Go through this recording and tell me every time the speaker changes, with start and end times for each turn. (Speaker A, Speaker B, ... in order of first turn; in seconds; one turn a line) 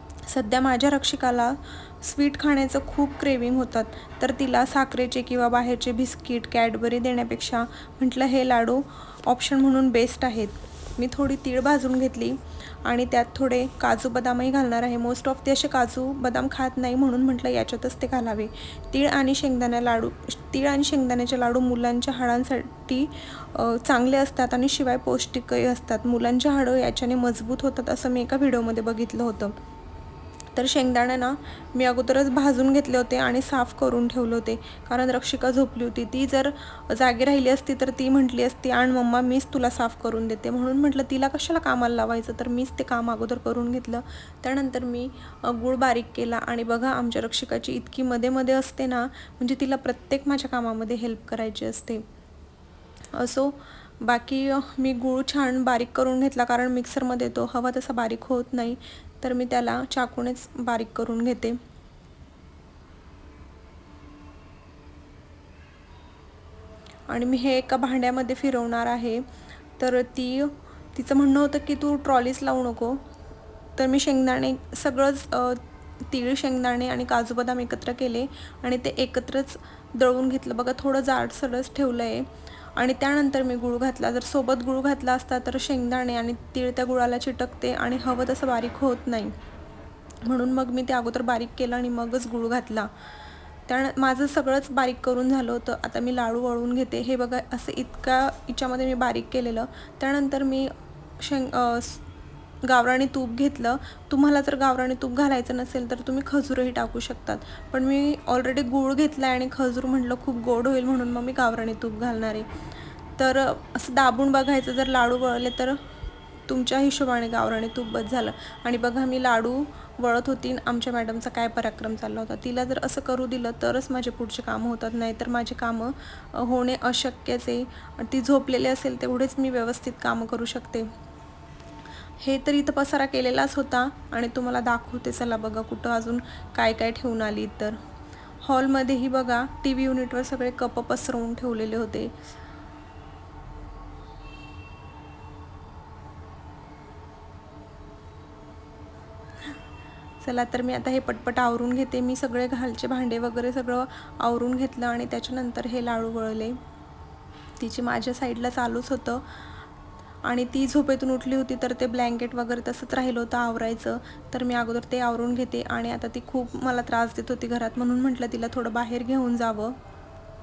Speaker A: 0.3-29.6
Speaker A: 30.6-52.0
Speaker A: 53.1-61.6
Speaker A: 67.1-69.2
Speaker A: 69.8-73.0
Speaker A: 73.8-89.3
Speaker A: 90.3-92.9
Speaker A: 93.7-102.0
Speaker A: 102.7-112.5
Speaker A: 113.2-115.8
Speaker A: 116.5-130.9
Speaker A: 132.2-137.8
Speaker A: 138.4-142.1
Speaker A: 150.2-156.6
Speaker A: 157.6-159.2
Speaker A: 160.2-169.8